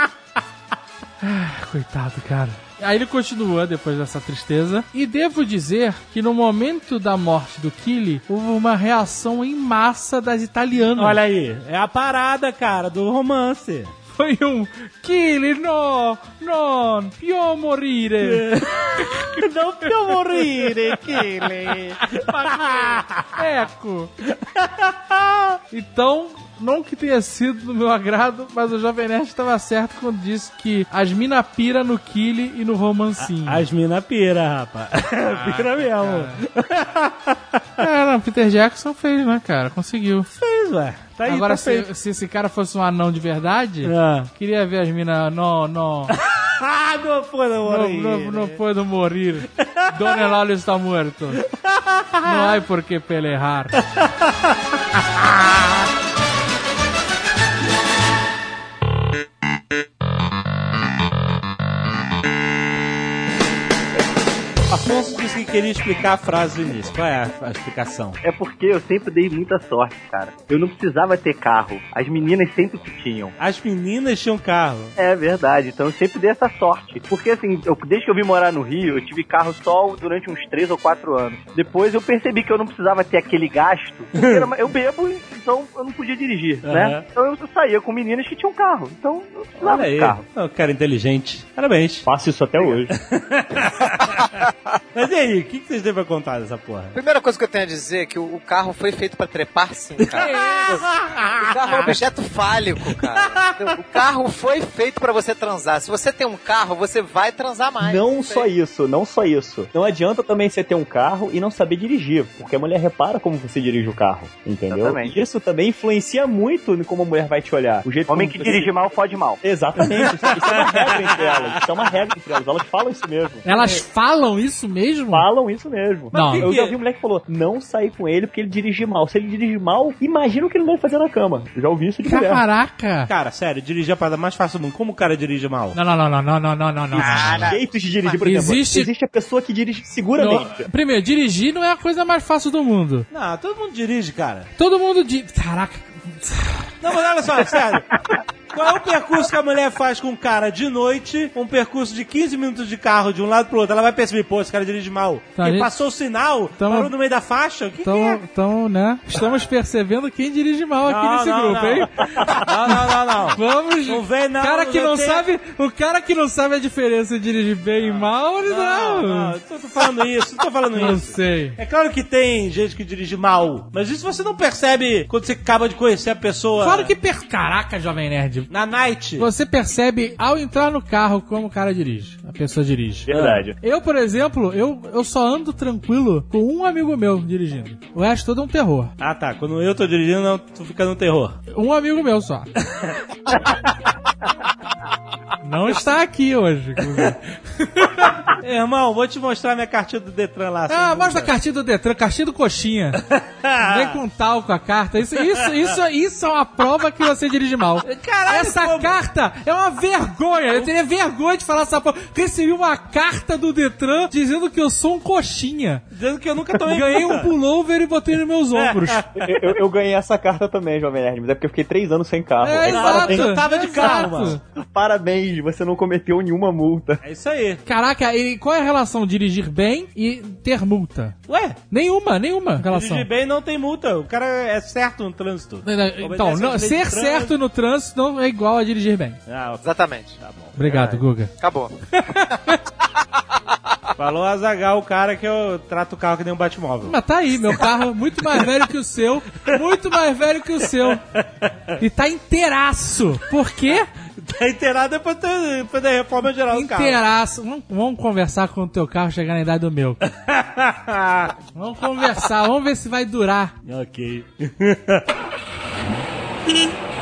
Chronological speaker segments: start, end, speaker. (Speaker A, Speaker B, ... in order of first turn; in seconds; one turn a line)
Speaker A: 1.2-11.2
Speaker B: 11.0-13.9
Speaker A: 14.1-24.1
Speaker B: 18.2-23.4
Speaker B: 24.3-25.6
Speaker A: 25.7-33.6
Speaker B: 33.2-37.8
Speaker A: 35.3-36.4
Speaker A: 37.8-40.3
Speaker B: 40.3-41.9
Speaker A: 41.2-46.1
Speaker B: 43.8-44.3
Speaker B: 46.1-48.6
Speaker A: 47.6-51.4
Speaker B: 49.5-50.2
Speaker B: 51.4-52.6
Speaker A: 52.2-53.8
Speaker B: 53.8-55.7
Speaker B: 64.7-68.2
Speaker C: 68.2-73.4
Speaker B: 73.4-74.9
Speaker C: 75.0-90.2
Speaker B: 84.2-84.4
Speaker B: 86.7-87.1
Speaker B: 89.6-92.1
Speaker D: 92.1-92.9
Speaker B: 92.6-94.3
Speaker B: 94.9-97.0
Speaker E: 96.9-100.8
Speaker B: 100.0-101.9
Speaker A: 100.2-100.8
Speaker E: 101.4-108.5
Speaker B: 103.0-103.8
Speaker D: 107.8-118.8
Speaker C: 114.7-115.2
Speaker C: 118.1-119.4
Speaker D: 119.4-123.8
Speaker B: 119.9-121.5
Speaker A: 123.5-125.3
Speaker D: 125.1-132.4
Speaker A: 126.1-126.5
Speaker B: 126.1-126.8
Speaker A: 132.1-133.1
Speaker B: 133.1-135.8
Speaker A: 135.7-137.5
Speaker E: 137.0-137.6
Speaker B: 137.0-137.3
Speaker D: 137.3-140.7
Speaker A: 138.1-138.9
Speaker A: 140.2-143.1
Speaker B: 143.1-144.5
Speaker A: 144.6-146.7
Speaker B: 146.8-147.9
Speaker B: 148.5-158.2
Speaker A: 155.4-155.7
Speaker A: 156.6-156.9
Speaker A: 157.8-162.5
Speaker B: 160.8-165.3
Speaker A: 163.3-169.3
Speaker B: 167.8-176.9
Speaker A: 170.8-171.6
Speaker A: 176.6-178.5
Speaker B: 178.5-179.3
Speaker A: 179.2-183.1
Speaker D: 183.1-183.6
Speaker B: 183.1-183.5
Speaker A: 183.6-188.9
Speaker B: 189.0-191.4
Speaker A: 191.5-192.5
Speaker A: 195.4-198.3
Speaker B: 198.3-201.3
Speaker A: 200.7-203.0
Speaker B: 203.0-204.0
Speaker A: 203.6-215.8
Speaker B: 205.2-205.7
Speaker B: 207.8-209.0
Speaker B: 215.9-217.3
Speaker A: 216.7-219.1
Speaker B: 218.5-219.5
Speaker D: 219.2-227.0
Speaker A: 222.4-224.4
Speaker B: 222.7-224.4
Speaker B: 227.0-227.6
Speaker A: 227.7-231.2
Speaker B: 231.3-231.6
Speaker A: 231.7-233.1
Speaker B: 232.6-237.3
Speaker A: 235.7-239.2
Speaker B: 239.3-239.7
Speaker E: 239.6-240.2
Speaker B: 240.2-241.0
Speaker A: 240.6-241.3
Speaker E: 241.4-241.8
Speaker A: 242.0-242.6
Speaker B: 244.0-247.7
Speaker A: 246.8-251.0
Speaker B: 250.7-251.7
Speaker A: 251.8-253.9
Speaker B: 254.2-257.0
Speaker A: 256.5-260.0
Speaker B: 260.1-261.4
Speaker A: 261.6-263.5
Speaker B: 263.6-265.1